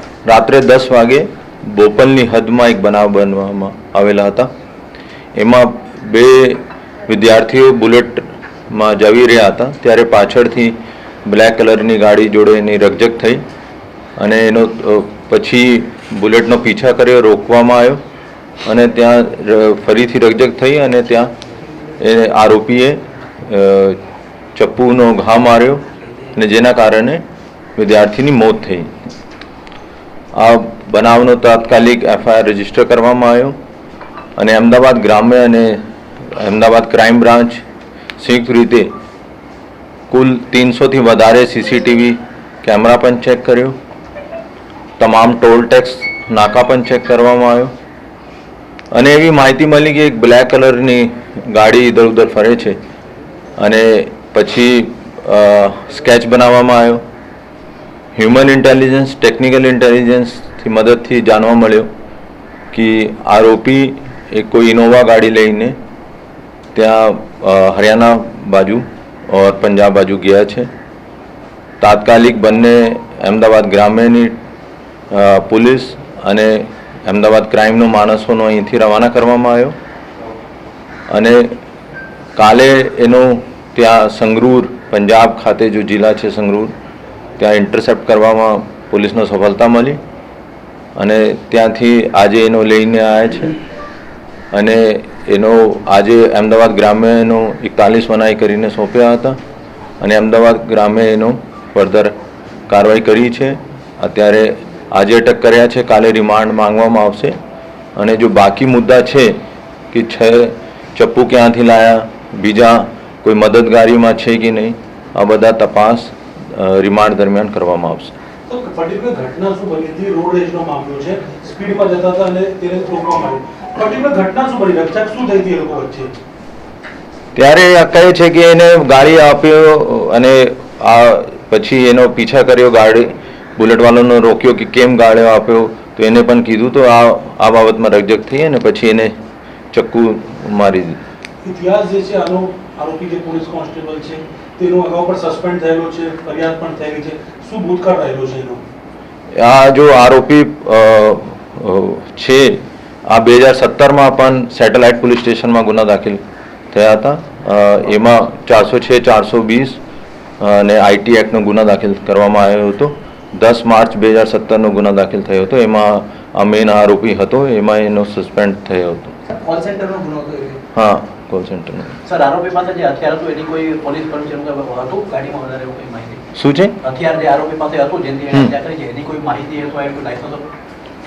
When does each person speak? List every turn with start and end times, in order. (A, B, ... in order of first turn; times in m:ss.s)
0:00.2-0:04.5 A
0:05.4-0:10.8 A
0:11.3-0:13.4 A
0:14.2-0:18.0 A
0:18.6-0:21.3 A
0:22.0-0:24.0 A
0:24.6-0:25.8 A
0:26.3-0:27.2 A
0:27.8-0:28.9 A
0:30.4-0:33.6 A
0:34.4-0:37.6 A
0:38.2-0:38.9 A
0:40.1-0:43.8 A
0:45.0-0:47.7 A
0:48.9-0:52.8 A
0:53.6-0:57.0 A
0:58.1-1:01.9 A
1:02.7-1:05.8 A
1:06.7-1:10.7 A
1:11.8-1:14.4 A
1:15.1-1:19.7 A
1:21.1-1:21.5 A
1:22.4-1:26.7 A
1:27.4-1:30.0 A
1:31.0-1:33.5 A
1:34.5-1:39.4 A
1:40.0-1:42.1 A
1:42.7-1:47.4 A
1:48.0-1:49.4 A
1:49.9-1:58.1 A
1:58.5-2:06.1 B
2:07.4-2:19.1 A
2:19.7-2:21.0 A
2:21.4-2:28.6 B
2:29.3-2:36.2 A
2:36.7-2:39.8 A
2:40.4-2:49.1 A
2:49.3-2:50.6 C
2:50.7-2:51.9 A
2:53.0-2:54.1 C
2:55.0-2:56.2 C
2:56.4-2:56.7 A
2:56.8-3:00.1 C